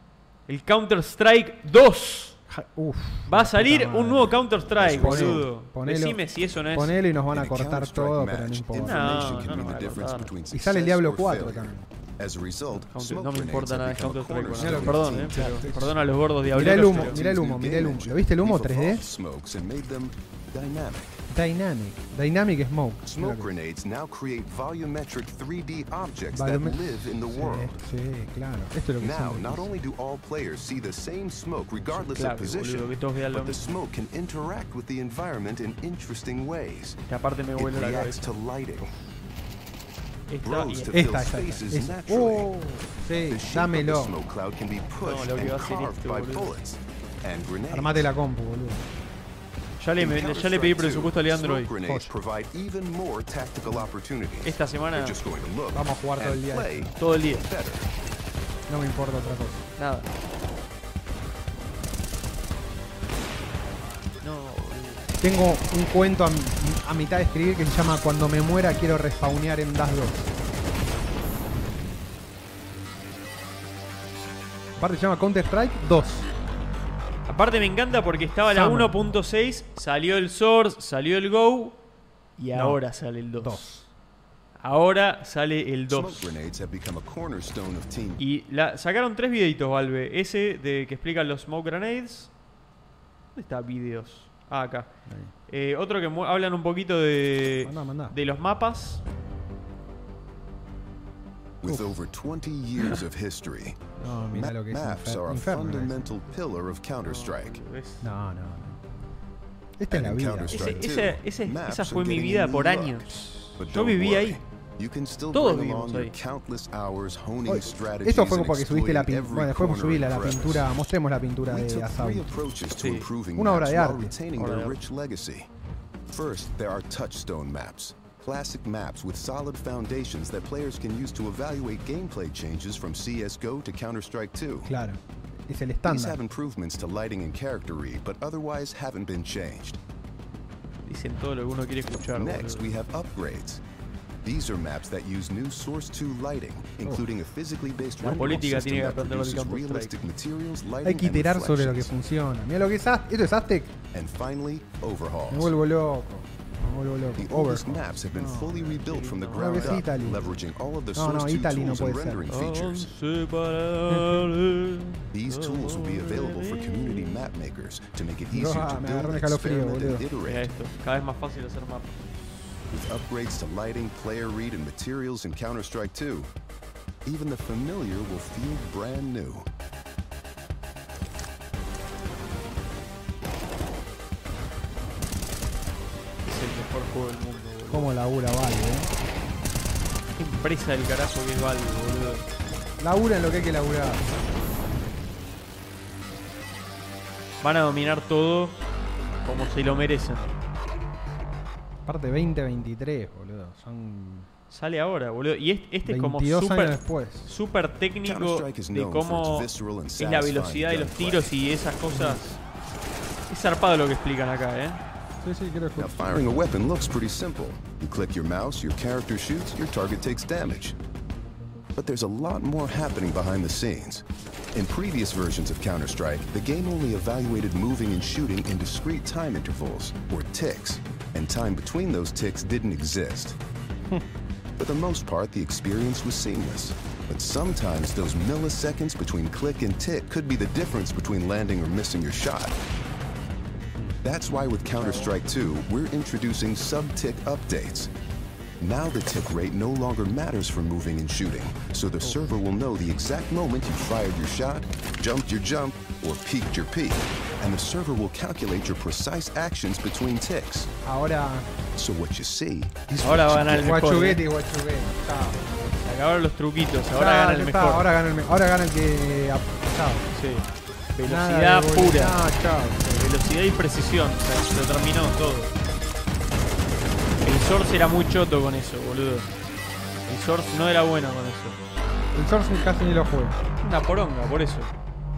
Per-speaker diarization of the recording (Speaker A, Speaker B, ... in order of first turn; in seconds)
Speaker A: 0.5-2.4, 3.3-7.0, 8.8-10.3, 12.7-17.2, 31.9-33.6, 37.1-38.3, 40.3-41.2, 45.0-46.5, 49.8-51.7, 54.4-55.2, 57.0-57.5, 59.8-60.1, 64.2-65.1, 77.3-81.8, 82.4-83.6, 84.6-86.3, 88.2-92.3, 93.3-94.9, 95.5-99.0, 107.0-108.1, 110.5-114.4, 115.3-116.1, 122.8-123.1, 124.3-124.8, 140.9-142.7, 148.0-149.9, 158.7-159.9, 162.3-167.2, 170.2-171.9, 186.2-187.9, 190.2-192.3, 197.4-198.6, 199.2-200.3, 204.5-212.4, 213.3-214.8, 244.8-245.1, 263.0-264.2, 265.7-267.9, 270.1-272.2, 272.9-275.5, 277.2-279.3, 280.1-281.6, 283.6-284.7
Speaker B: 2.5-6.2, 6.7-9.3, 10.5-11.9, 14.6-16.0, 16.5-19.1, 21.3-23.5, 26.3-29.7, 40.9-44.1, 47.7-48.9, 51.8-52.1, 55.7-56.9, 58.7-59.7, 65.2-70.3, 74.8-76.3, 78.5-79.0, 82.5-82.8, 83.4-83.9, 95.1-95.3, 97.6-98.2, 101.7-101.9, 104.0-106.0, 108.0-108.8, 109.8-110.8, 117.5-122.3, 123.4-124.1, 134.7-136.2, 150.8-153.8, 155.3-158.8, 159.3-160.2, 160.9-162.2, 163.9-164.3, 168.3-170.1, 187.7-188.9, 192.8-194.2, 201.9-204.3, 205.9-207.3, 211.9-212.2, 215.2-216.1, 252.0-252.3, 260.8-261.5, 263.5-265.7, 266.9-270.1, 271.1-272.9, 282.1-283.4
Speaker C: 4.8-5.5, 7.3-15.6, 16.5-21.2, 23.0-27.8, 29.0-37.0, 37.6-38.9, 40.4-42.5, 43.3-48.0, 50.0-57.9, 85.9-88.2, 101.6-107.6, 109.9-120.6, 121.5-125.5, 126.1-134.8, 135.8-139.8, 142.1-143.6, 144.2-151.9, 153.9-155.5, 157.2-162.9, 165.1-170.5, 172.7-176.3, 177.1-179.5, 208.0-211.3, 215.8-220.8, 221.8-233.4, 234.6-242.6, 244.0-247.9, 248.6-260.7, 261.7-263.7